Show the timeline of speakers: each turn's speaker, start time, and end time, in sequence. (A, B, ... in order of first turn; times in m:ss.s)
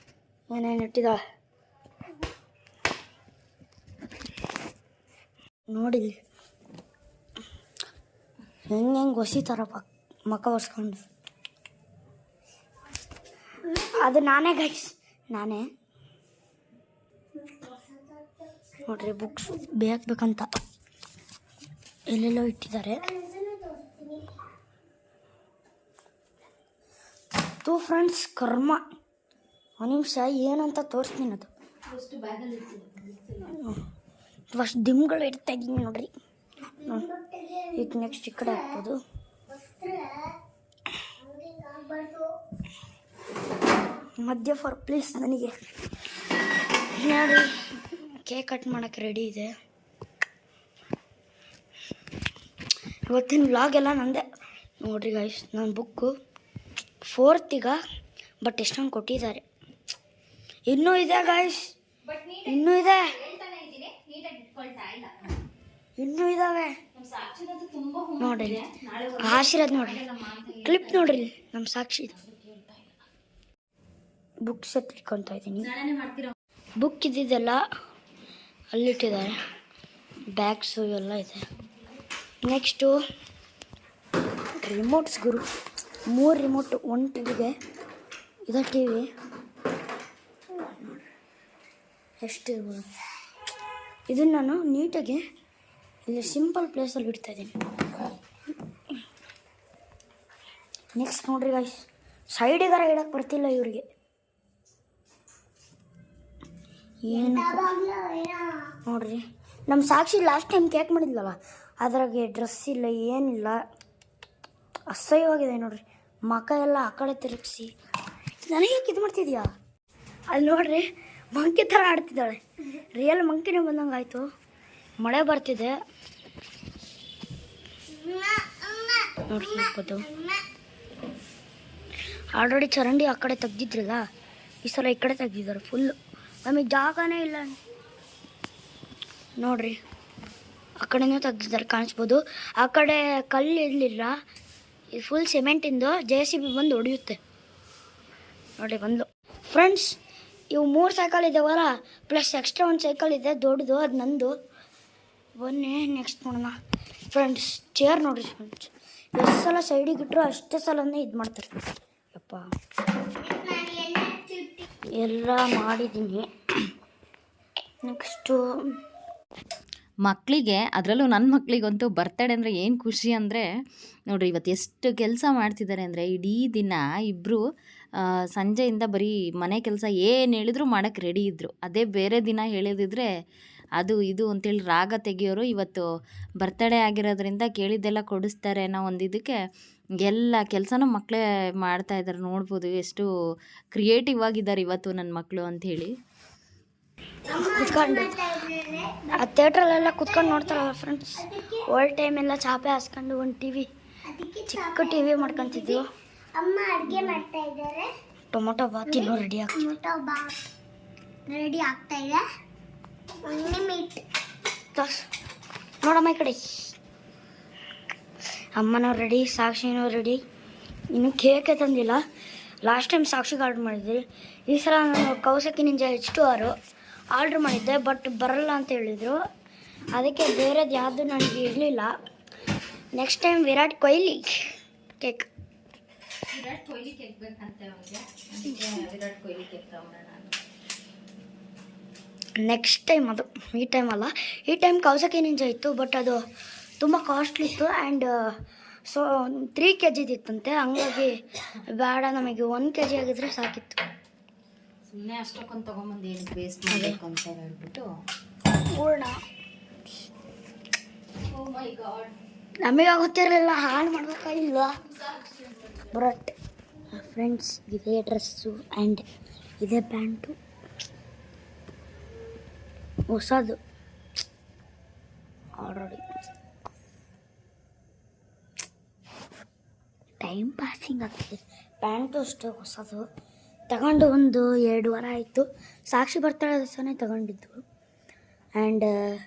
0:00.5-0:01.2 A
0:05.7-0:06.1 A
0:08.7-0:11.0 A
0:13.6-0:13.9 B
0:14.0-0:15.6 A
0:17.4-0:19.2 B
0:18.9-0:20.5 A
0:22.1-0:23.1 A
0:23.0-0:24.4 B
0:27.6-0:28.8 A
0:29.8-0:31.5 A
0:31.9-0:33.6 C
0:33.5-0:33.8 A
0:34.5-0:36.1 A
0:36.6-0:38.8 B
0:37.8-0:39.0 A
0:39.5-0:40.4 B
0:41.2-0:42.3 B
0:44.2-0:45.5 A
0:47.0-0:49.5 A
0:53.1-0:54.2 A
0:54.8-0:56.1 A
0:57.1-0:57.8 A
0:58.4-0:59.4 A
1:00.7-1:01.7 A
1:02.0-1:05.4 C
1:02.5-1:03.1 A
1:06.0-1:06.7 A
1:06.9-1:11.2 C
1:08.2-1:08.6 A
1:09.2-1:10.0 A
1:10.6-1:12.2 A
1:12.1-1:12.9 C
1:14.4-1:15.7 A
1:15.6-1:16.3 C
1:16.8-1:17.6 A
1:18.7-1:19.4 A
1:20.4-1:21.4 A
1:22.4-1:23.0 A
1:24.6-1:25.4 A
1:26.1-1:27.5 A
1:28.5-1:29.1 A
1:32.2-1:32.8 A
1:34.1-1:35.2 A
1:36.1-1:37.5 A
1:41.0-1:43.8 A
1:47.0-1:47.7 A
1:47.1-1:48.8 B
1:48.9-1:53.6 A
1:54.9-1:57.7 A
1:58.4-1:59.5 A
2:00.3-2:02.4 A
2:03.0-2:04.3 A
2:05.0-2:05.7 A
2:07.9-2:10.4 B
2:09.3-2:10.1 A
2:12.4-2:14.0 A
2:14.6-2:17.6 A
2:19.4-2:19.8 A
2:20.8-2:24.2 A
2:24.9-2:27.2 A
2:28.6-2:30.0 A
2:30.5-2:34.3 A
2:35.4-2:36.5 A
2:37.1-2:41.5 A
2:42.1-2:42.4 A
2:43.2-2:44.7 B
2:45.0-2:46.3 A
2:47.9-2:48.4 A
2:50.0-2:53.5 C
2:54.1-2:57.4 C
2:58.0-3:03.1 C
3:03.8-3:05.9 C
3:06.4-3:09.4 C
3:10.0-3:13.1 C
3:13.7-3:15.9 C
3:17.3-3:19.2 B
3:17.4-3:18.2 A
3:19.2-3:23.7 A
3:20.0-3:20.6 B
3:21.2-3:21.7 B
3:24.1-3:25.8 B
3:24.5-3:25.8 A
3:26.4-3:27.9 B
3:28.3-3:29.7 A
3:28.9-3:30.3 B
3:31.3-3:32.2 B
3:33.2-3:34.0 B
3:34.8-3:35.1 A
3:35.8-3:36.7 A
3:38.6-3:40.2 A
3:40.9-3:42.0 A
3:42.6-3:46.5 A
3:47.1-3:49.2 A
3:50.0-3:51.9 A
3:53.0-3:54.5 A
3:55.0-3:55.3 A
3:56.3-4:00.3 C
4:02.4-4:06.2 A
4:06.8-4:08.1 A
4:08.9-4:11.2 A
4:11.7-4:13.8 A
4:14.9-4:17.9 C
4:16.7-4:17.0 A
4:18.8-4:19.2 A
4:21.2-4:22.1 C
4:22.6-4:24.8 A
4:25.1-4:25.8 C
4:25.9-4:26.3 A
4:26.9-4:29.0 A
4:29.6-4:30.4 A
4:33.1-4:33.6 A
4:35.6-4:36.0 A
4:40.2-4:43.0 A
4:43.7-4:47.6 A
4:48.6-4:48.9 A